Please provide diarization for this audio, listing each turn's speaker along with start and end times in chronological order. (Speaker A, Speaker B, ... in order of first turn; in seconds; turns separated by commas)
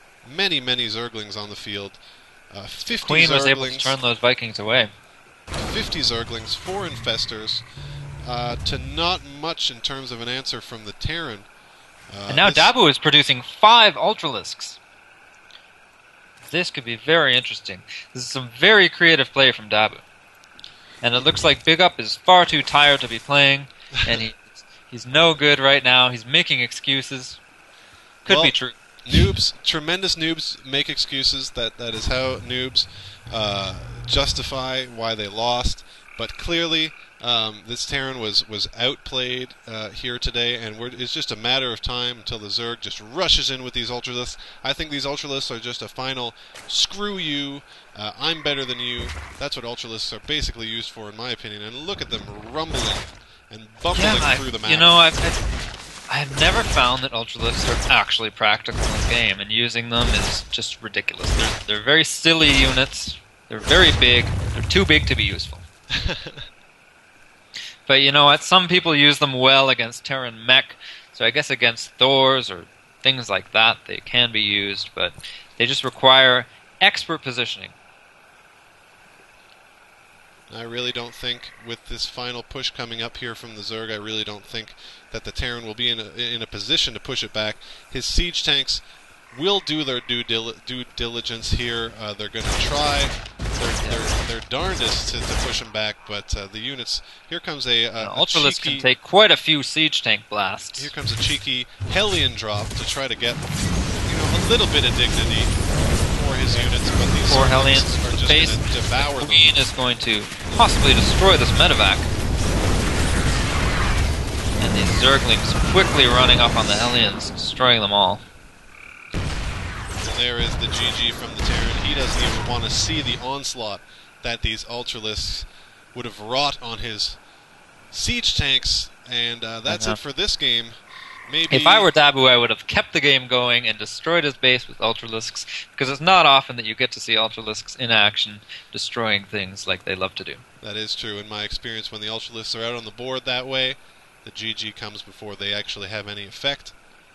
Speaker A: 0.2-2.0, Speaker A: 2.5-4.0, Speaker B: 2.9-4.9, Speaker A: 5.5-7.7, Speaker A: 8.2-11.5, Speaker A: 12.1-12.7, Speaker B: 12.3-14.8, Speaker B: 16.4-20.0, Speaker B: 21.0-27.4, Speaker B: 28.2-29.3, Speaker A: 28.2-54.9, Speaker B: 53.9-55.4, Speaker B: 56.1-65.7, Speaker A: 65.9-66.4, Speaker B: 67.9-77.7, Speaker A: 80.5-93.2, Speaker B: 93.6-94.1, Speaker A: 93.8-98.9, Speaker B: 98.0-100.9, Speaker A: 100.8-103.5, Speaker A: 104.0-109.5, Speaker B: 107.3-112.1, Speaker B: 114.6-118.2, Speaker A: 120.0-127.2, Speaker A: 127.9-130.8, Speaker B: 129.7-130.0, Speaker A: 131.3-131.9, Speaker B: 131.5-140.4, Speaker A: 140.6-146.7